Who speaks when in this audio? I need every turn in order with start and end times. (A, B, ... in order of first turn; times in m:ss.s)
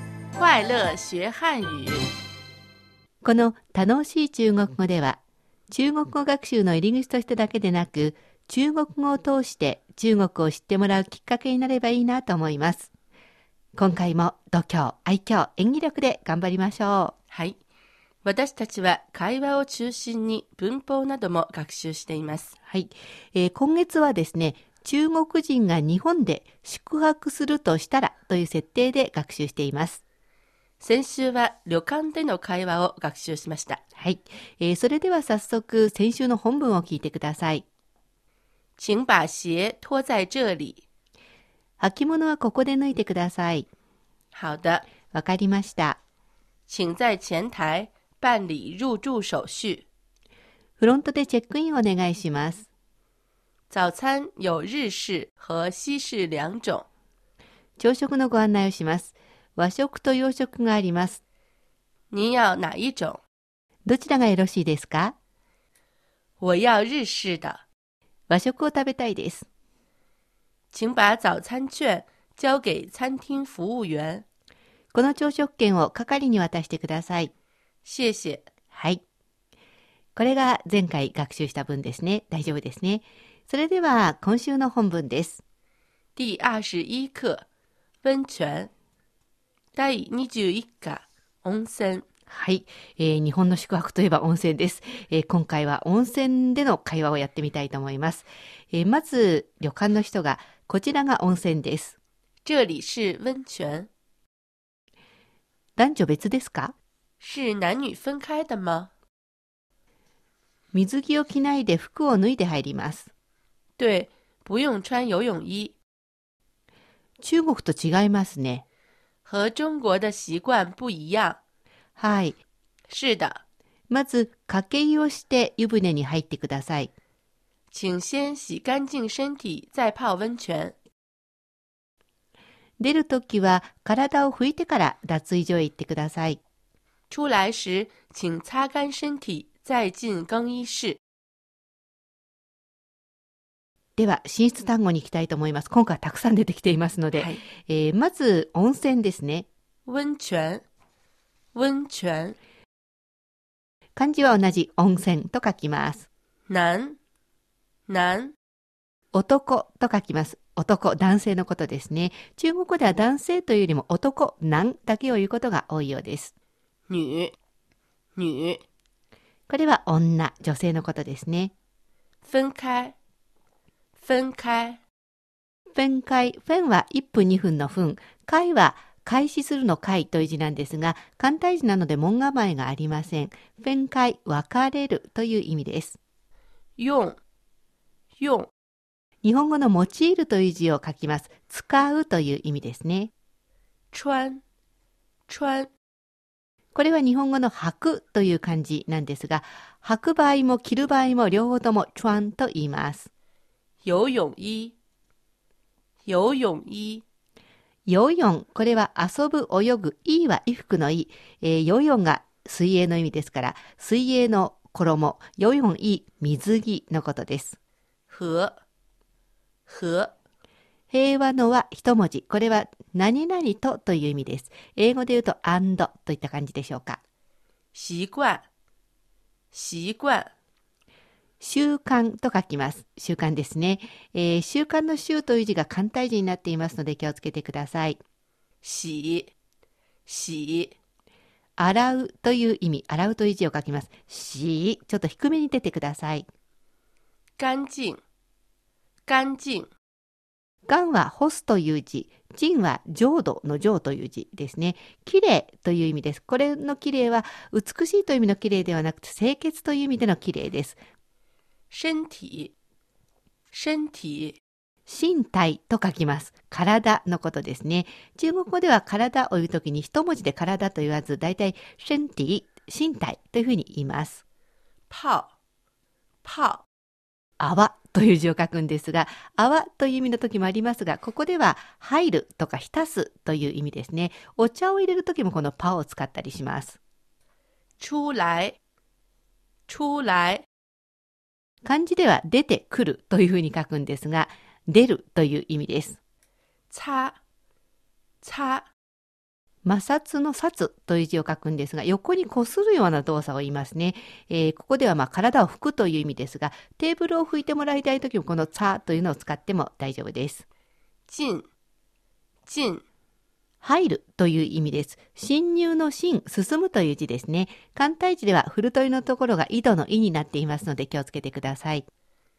0:00.3-0:02.1 A
0:03.2-0:05.2 B
0:05.7-0:12.9 B
0:13.8-0:17.1 B
0:17.3-0:17.6 A
0:18.2-0:22.5 A
0:22.7-0:30.0 B
0:30.8-0:33.8 A
0:34.0-0:37.6 B
0:38.8-0:40.8 A
0:41.8-0:43.7 B
0:44.3-0:44.8 A
0:45.1-0:46.0 B
0:46.7-0:49.8 A
0:50.8-0:52.7 B
0:53.7-0:56.8 A
0:57.8-1:01.2 B
1:02.1-1:03.2 A
1:03.8-1:05.1 B
1:06.4-1:07.6 A
1:08.3-1:09.4 B
1:10.7-1:14.2 A
1:14.9-1:17.3 B
1:17.8-1:18.5 A
1:18.7-1:19.0 B
1:20.2-1:25.4 B
1:26.2-1:27.4 A
1:28.0-1:28.7 A
1:29.8-1:32.0 A
1:32.3-1:42.0 B
1:42.4-1:43.9 A
1:45.8-1:46.7 B
1:47.2-1:48.9 A
1:50.7-1:53.1 B
1:53.8-1:55.8 A
1:57.2-1:58.6 B
1:59.2-2:01.4 A
2:02.0-2:02.4 B
2:02.9-2:03.4 A
2:03.9-2:06.9 B
2:07.7-2:10.8 A
2:12.8-2:16.4 B
2:17.1-2:21.0 A
2:24.0-2:29.5 B
2:27.1-2:27.4 A
2:29.9-2:30.6 A
2:31.5-2:32.4 A
2:34.0-2:36.0 B
2:36.5-2:37.0 A
2:37.9-2:38.3 A
2:39.1-2:46.3 B
2:46.9-2:47.3 A
2:48.2-2:48.6 A
2:49.5-2:51.5 B
2:52.2-2:52.9 A
2:54.0-2:54.8 A
2:55.7-3:06.0 B
3:06.8-3:07.2 A
3:08.2-3:08.5 A
3:09.2-3:13.1 B
3:13.9-3:14.4 A
3:15.3-3:15.7 A
3:16.7-3:23.1 B
3:23.8-3:24.7 A
3:26.1-3:27.0 A
3:27.9-3:37.6 B
3:38.1-3:38.5 A
3:39.7-3:40.1 A
3:40.9-3:47.0 B
3:47.7-3:48.4 A
3:49.5-3:50.3 A
3:51.4-3:58.0 B
3:58.6-3:59.3 A
4:00.1-4:00.7 A
4:01.6-4:06.3 B
4:07.4-4:08.0 A
4:09.1-4:09.7 A
4:10.6-4:20.8 B
4:21.7-4:22.5 A
4:23.5-4:24.4 A
4:24.9-4:34.2 B
4:34.9-4:35.3 A
4:36.2-4:36.6 A
4:37.4-4:46.8 B
4:47.8-4:48.6 A
4:49.7-4:50.4 A
4:51.6-4:56.0 B
4:56.7-4:57.2 A
4:58.2-4:58.6 A
4:59.6-5:10.4 B
5:11.1-5:11.5 A
5:12.5-5:12.8 A
5:13.6-5:21.8 B